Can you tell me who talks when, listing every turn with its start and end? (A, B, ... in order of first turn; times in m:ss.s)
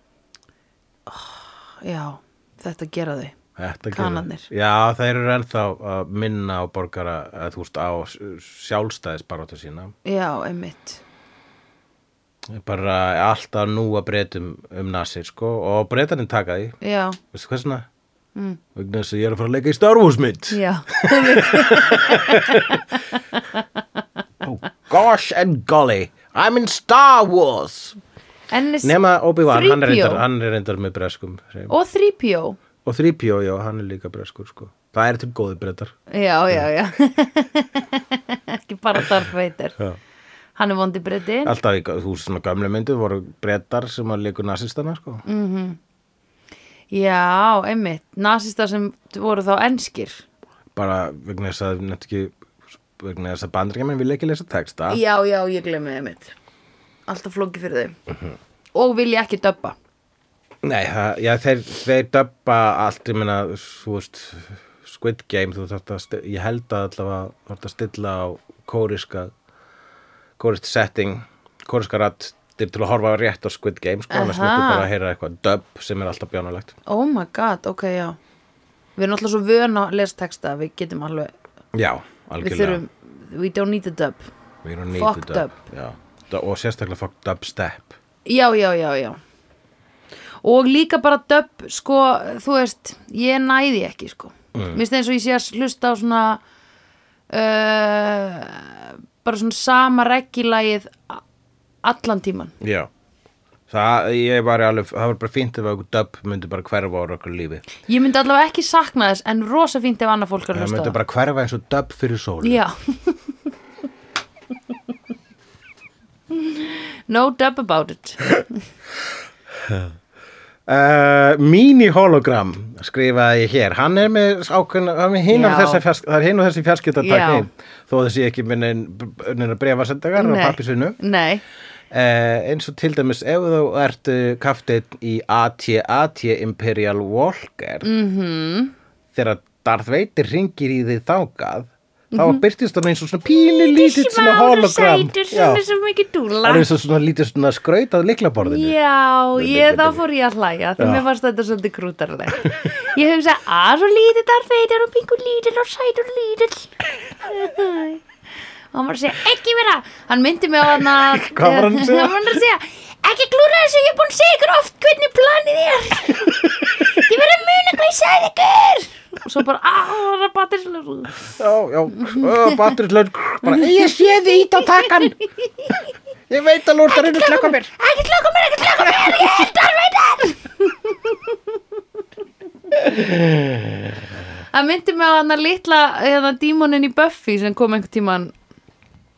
0:01.1-0:03.4 A
0:03.6-0:09.9 B
0:03.9-0:04.5 A
0:10.0-0:11.0 A
0:12.5-0:16.8 B
0:16.8-0:17.2 A
0:17.3-0:17.8 B
0:18.7-0:22.8 B
0:20.5-0:22.8 A
0:24.4-0:28.0 B
0:28.5-0:30.2 A
0:28.8-0:31.7 B
0:31.7-0:32.6 A
0:32.8-0:35.9 B
0:36.1-0:39.8 A
0:40.6-0:41.5 A
0:41.4-0:45.2 B
0:45.2-0:45.8 A
0:46.9-0:50.2 A
0:50.7-0:52.3 B
0:53.0-0:55.0 B
0:54.9-0:56.3 A
0:57.1-0:58.0 A
0:58.7-0:59.8 A
1:00.6-1:09.3 B
1:10.4-1:16.7 B
1:14.1-1:14.9 A
1:16.9-1:18.2 A
1:19.0-1:21.3 A
1:21.7-1:22.8 B
1:22.4-1:24.3 A
1:24.6-1:28.0 B
1:24.9-1:25.6 A
1:28.2-1:29.2 A
1:30.4-1:36.4 A
1:34.5-1:34.8 B
1:37.3-1:41.2 A
1:41.8-1:42.5 A
1:42.6-1:42.9 B
1:43.7-1:47.6 B
1:47.8-1:51.0 A
1:50.5-1:52.6 B
1:52.4-1:53.2 A
1:56.3-1:58.3 A
1:59.6-1:59.9 B
2:00.7-2:11.0 B
2:05.3-2:05.8 A
2:07.0-2:07.5 A
2:10.2-2:11.4 A
2:11.9-2:17.9 B
2:17.8-2:18.7 A
2:19.1-2:25.6 B
2:22.1-2:22.4 A
2:23.3-2:26.6 A
2:26.4-2:28.8 B
2:28.4-2:38.0 A
2:29.3-2:30.0 B
2:30.8-2:31.0 B
2:38.7-2:51.2 A
2:40.9-2:42.4 B
2:51.4-2:55.2 B
2:52.0-2:52.6 A
2:53.5-2:54.9 A
2:56.3-2:57.7 B
2:56.9-3:01.3 A
2:58.8-2:59.5 B
3:02.7-3:04.0 B
3:04.5-3:08.3 A